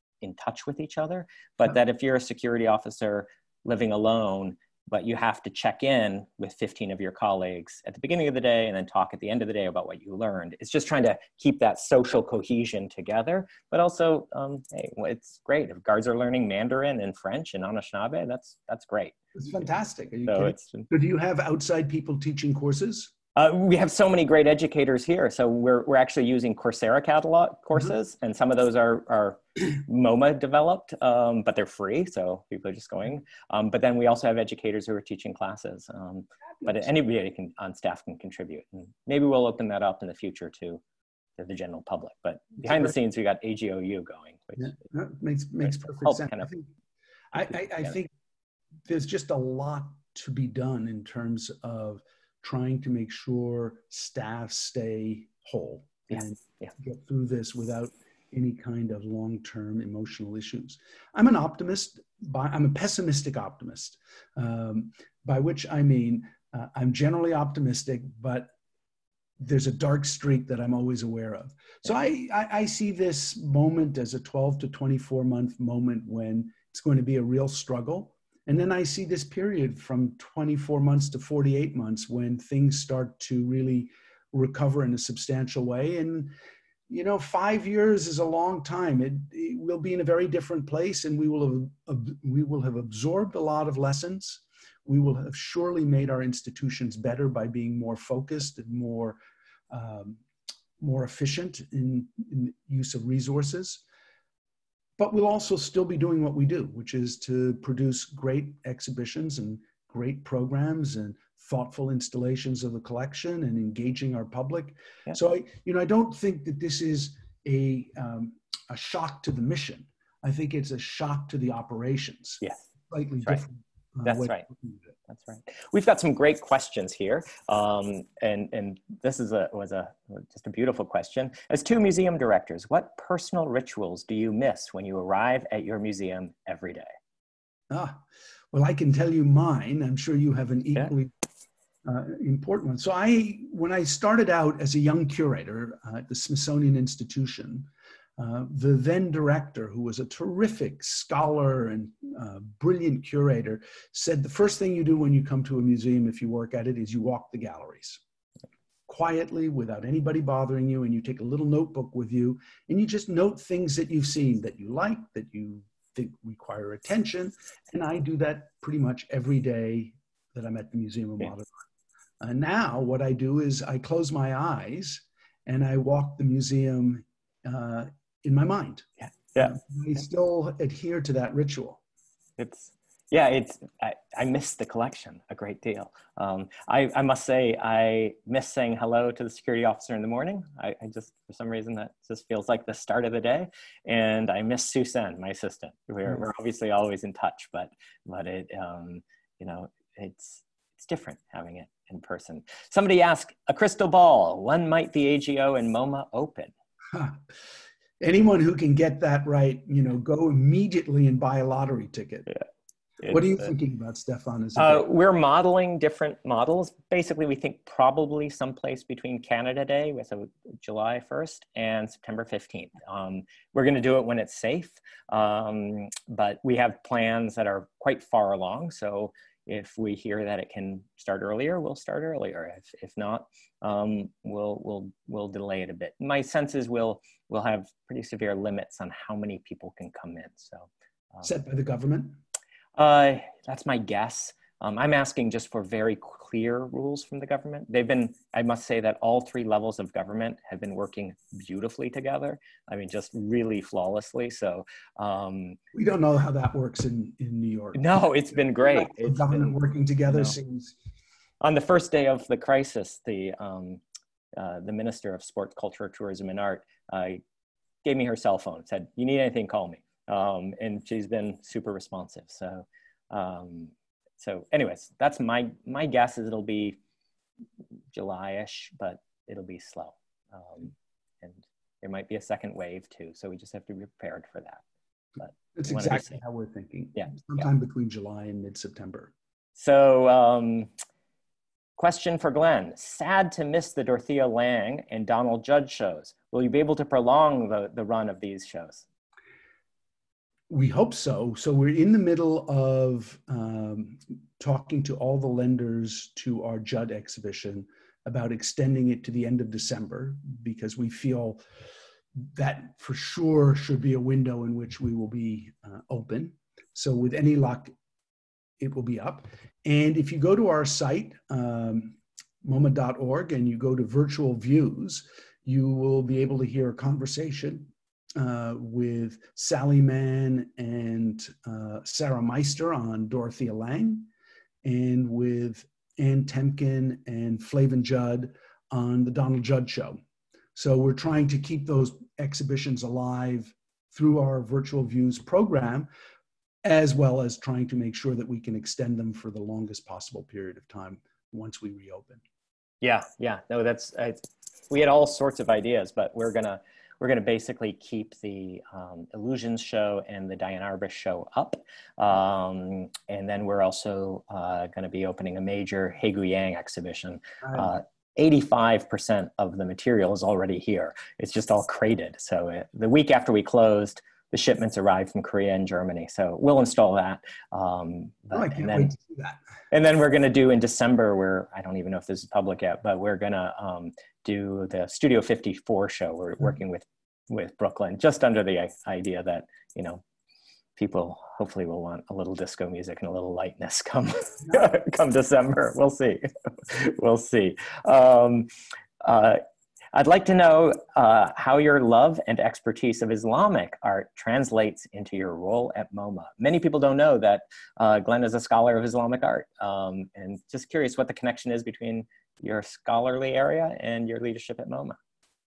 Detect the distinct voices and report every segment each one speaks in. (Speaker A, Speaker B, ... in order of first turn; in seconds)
Speaker A: 0.2-19.1, 20.2-20.9, 23.4-40.8, 41.4-44.8, 45.6-46.5, 56.1-56.7, 124.0-124.5, 125.1-136.9, 179.0-179.6, 182.4-206.5, 213.0-213.5, 214.6-241.2, 242.7-255.6, 257.7-259.6, 260.1-260.4, 261.4-263.8, 264.4-267.2, 267.8-276.8, 277.9-284.6, 285.2-286.2, 289.6-290.7, 291.8-298.8, 352.8-354.2, 354.7-378.9, 379.7-390.0, 390.8-398.5, 399.0-399.4, 399.9-415.0
Speaker B: 19.3-23.1, 42.6-42.9, 44.6-46.7, 47.3-48.1, 48.9-68.5, 69.4-86.3, 86.9-99.2, 99.7-100.2, 100.8-103.8, 105.0-124.9, 137.7-138.0, 138.5-141.1, 141.8-158.0, 158.9-171.5, 172.2-178.9, 179.4-181.8, 206.9-207.2, 208.0-212.3, 213.1-214.9, 241.2-242.2, 255.7-257.8, 258.6-260.8, 285.5-289.1, 300.5-311.4, 312.2-317.7, 318.6-334.1, 334.6-340.0, 340.5-345.9, 346.6-352.2, 378.3-379.4